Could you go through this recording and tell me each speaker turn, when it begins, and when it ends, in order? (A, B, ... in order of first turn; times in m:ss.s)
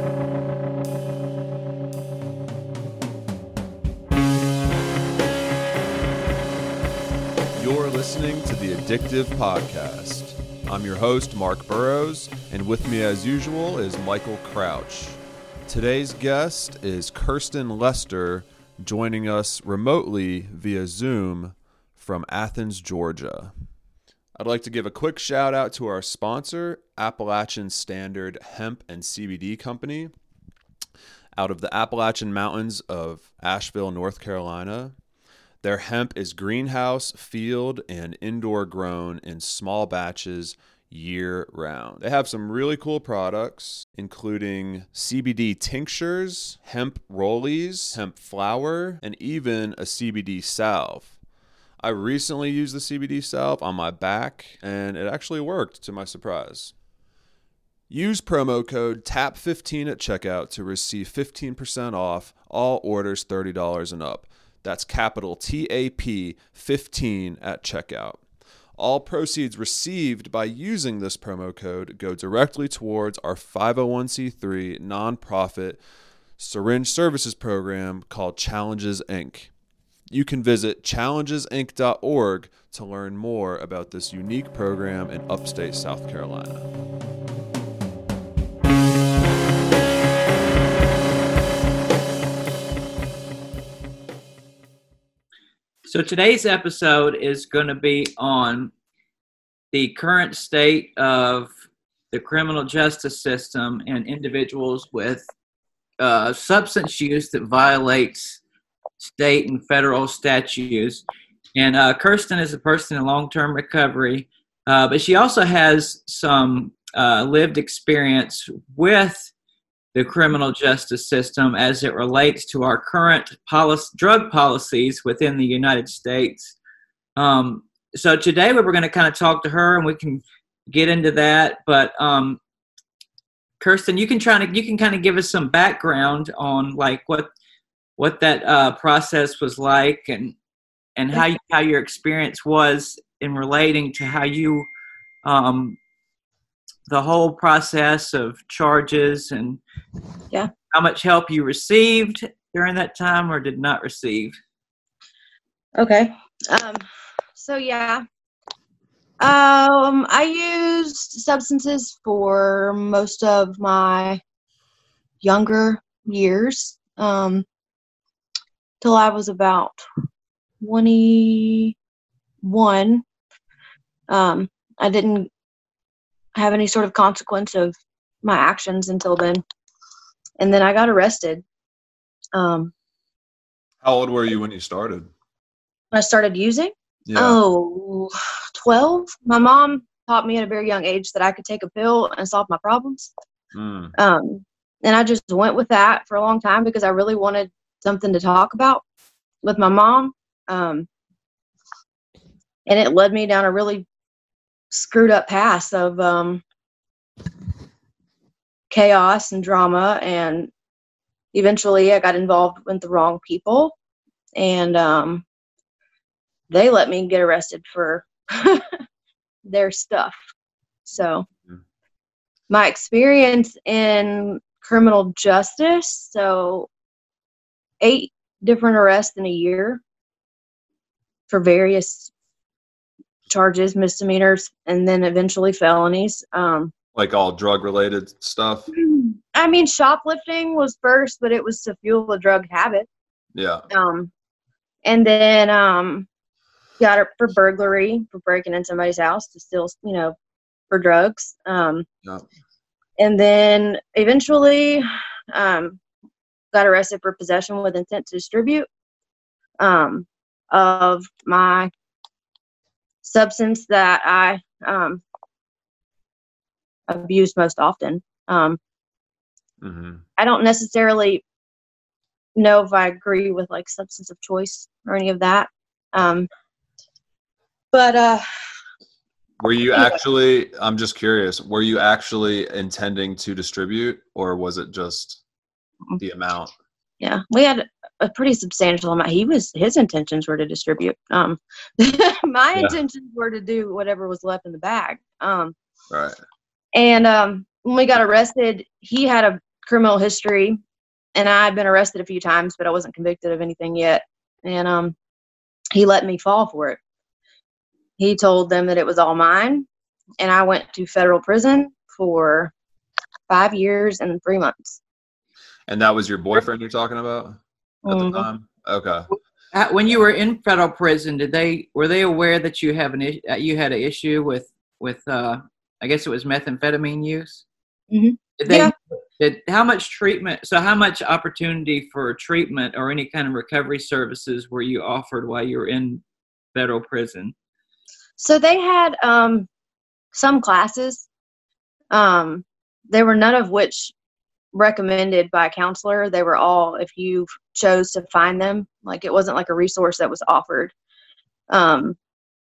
0:07.5-0:23.5 A
0:24.4-0:30.1 A
0:31.4-0:34.9 A
0:35.6-0:51.1 A
0:51.8-0:56.7 A
0:57.9-1:08.2 A
1:08.8-1:15.8 A
1:16.4-1:19.5 A
1:20.1-1:26.7 A
1:35.8-1:38.7 B
1:39.7-1:41.5 B
1:42.1-1:45.3 B
1:46.0-1:48.4 B
1:49.0-1:59.3 B
1:59.9-2:06.6 B
2:07.2-2:12.4 B
2:13.6-2:17.3 B
2:18.0-2:20.4 B
2:21.0-2:24.7 B
2:25.2-2:25.8 B
2:26.9-2:29.6 B
2:30.7-2:34.4 B
2:35.8-2:36.8 C
2:37.4-2:38.0 C
2:39.2-2:44.2 C
2:45.2-2:47.4 C
2:48.8-2:49.8 C
2:50.6-2:51.7 C
2:52.4-2:53.0 C
2:54.1-2:55.3 C
2:56.3-2:59.4 C
3:00.4-3:01.4 C
3:02.3-3:02.7 C
3:03.8-3:05.1 A
3:05.9-3:13.1 C
3:07.0-3:07.4 A
3:13.5-3:13.9 A
3:14.0-3:18.8 C
3:19.4-3:20.9 C
3:22.6-3:23.8 C
3:24.7-3:26.4 C
3:28.7-3:30.5 C
3:31.3-3:33.7 C
3:34.4-3:35.2 C
3:36.5-3:38.7 C
3:39.4-3:40.2 C
3:40.8-3:41.2 C
3:42.5-3:46.7 C
3:47.8-3:49.8 C
3:51.3-3:52.1 C
3:53.3-3:56.7 C
3:56.9-3:58.7 A
3:58.8-4:02.9 C
4:03.3-4:03.6 A
4:03.7-4:04.1 C
4:04.8-4:06.1 C
4:06.8-4:10.1 C
4:10.7-4:11.9 C
4:13.0-4:15.8 C
4:16.5-4:18.7 C
4:19.6-4:21.7 C
4:23.0-4:25.0 C
4:26.9-4:28.6 C
4:29.6-4:30.0 A
4:30.2-4:31.2 C
4:32.4-4:36.3 C
4:37.7-4:38.2 C
4:39.4-4:45.2 A
4:39.7-4:40.0 C
4:46.0-4:46.5 A
4:47.0-4:55.5 C
4:55.9-4:56.2 A
4:56.7-5:00.6 C
5:01.1-5:04.9 C
5:05.7-5:06.8 C
5:08.0-5:09.6 C
5:10.2-5:12.5 C
5:13.3-5:14.8 C
5:15.7-5:19.1 A
5:17.8-5:18.2 C
5:19.5-5:27.4 B
5:27.9-5:28.7 C
5:28.4-5:36.0 B
5:36.5-5:37.3 B
5:38.2-5:39.5 C
5:40.1-5:41.1 C
5:41.9-5:43.9 C
5:44.5-5:50.7 C
5:51.5-5:52.0 C